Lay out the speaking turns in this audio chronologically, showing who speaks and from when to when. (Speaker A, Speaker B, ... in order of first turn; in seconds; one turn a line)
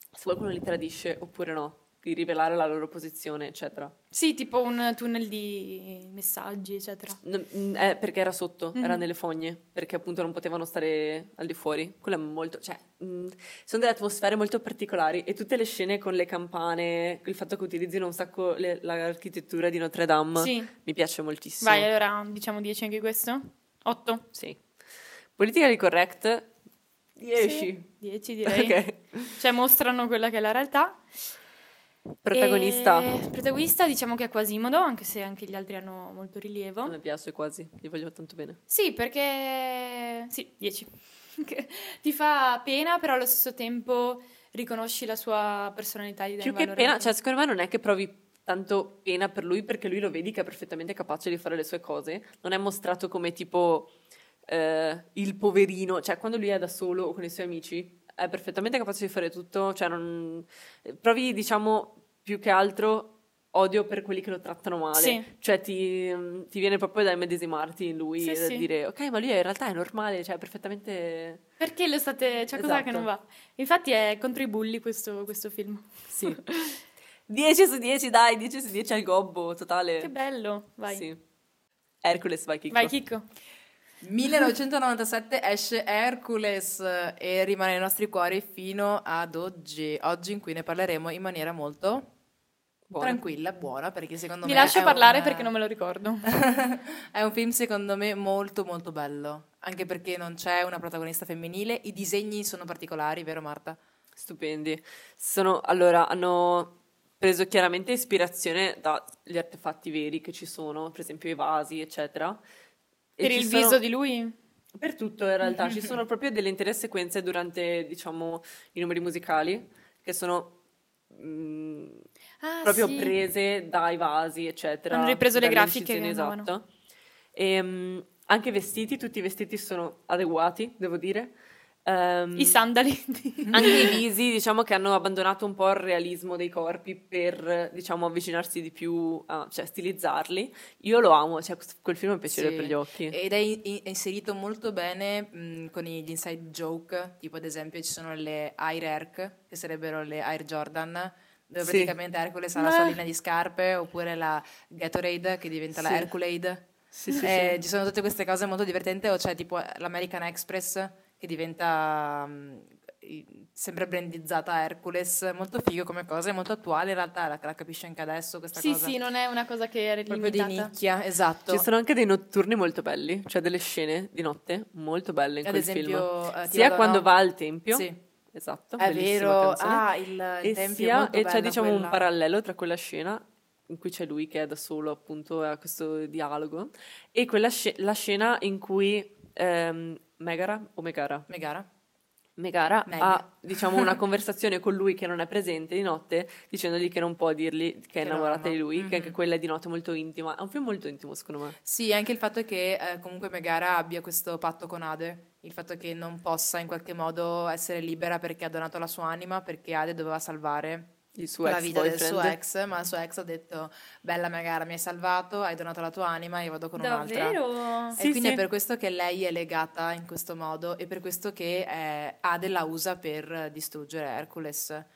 Speaker A: 0.1-3.9
Speaker B: 4.1-7.2
Speaker A: 7.2-21.9
Speaker B: 8.8-9.0
Speaker B: 20.4-20.7
Speaker B: 21.6-24.2
Speaker A: 24.3-24.6
Speaker A: 25.4-26.5
Speaker A: 27.2-27.9
Speaker B: 27.4-28.8
Speaker A: 28.4-29.4
Speaker B: 29.3-31.1
Speaker A: 32.2-33.1
Speaker B: 32.3-37.0
Speaker A: 36.9-38.6
Speaker B: 38.7-47.1
Speaker A: 46.4-53.9
Speaker A: 54.5-71.4
Speaker B: 64.9-65.3
Speaker B: 68.2-68.7
Speaker B: 71.6-76.8
Speaker A: 72.5-73.1
Speaker A: 76.1-76.4
Speaker A: 77.3-80.1
Speaker B: 80.0-81.1
Speaker A: 80.9-81.2
Speaker A: 82.0-82.9
Speaker B: 82.7-83.3
Speaker C: 84.0-92.1
Speaker A: 92.9-93.2
Speaker C: 93.0-95.5
Speaker B: 94.4-96.3
Speaker C: 96.2-103.8
Speaker A: 104.2-112.4
Speaker A: 113.2-113.8
Speaker B: 113.2-114.4
Speaker A: 114.8-120.6
Speaker C: 115.6-116.0
Speaker A: 121.1-122.1
Speaker B: 122.4-123.2
Speaker A: 122.6-126.7
Speaker B: 124.9-126.5
Speaker A: 127.3-131.3
Speaker A: 131.9-132.6
Speaker B: 132.3-134.0
Speaker A: 133.5-143.2
Speaker C: 142.3-156.7
Speaker A: 151.6-151.9
Speaker B: 152.6-153.0
Speaker A: 155.8-156.1
Speaker A: 156.9-157.6
Speaker C: 157.2-168.9
Speaker B: 168.6-170.7
Speaker C: 170.1-171.7
Speaker A: 171.5-179.8
Speaker C: 175.4-177.1
Speaker C: 177.7-178.0
Speaker C: 178.8-182.0
Speaker A: 180.4-191.3
Speaker C: 191.3-191.7
Speaker A: 192.4-201.6
Speaker C: 192.9-194.0
Speaker C: 198.0-199.2
Speaker C: 201.6-210.9
Speaker A: 211.2-212.4
Speaker C: 211.4-217.4
Speaker B: 216.8-218.0
Speaker C: 218.0-224.9
Speaker A: 218.0-218.4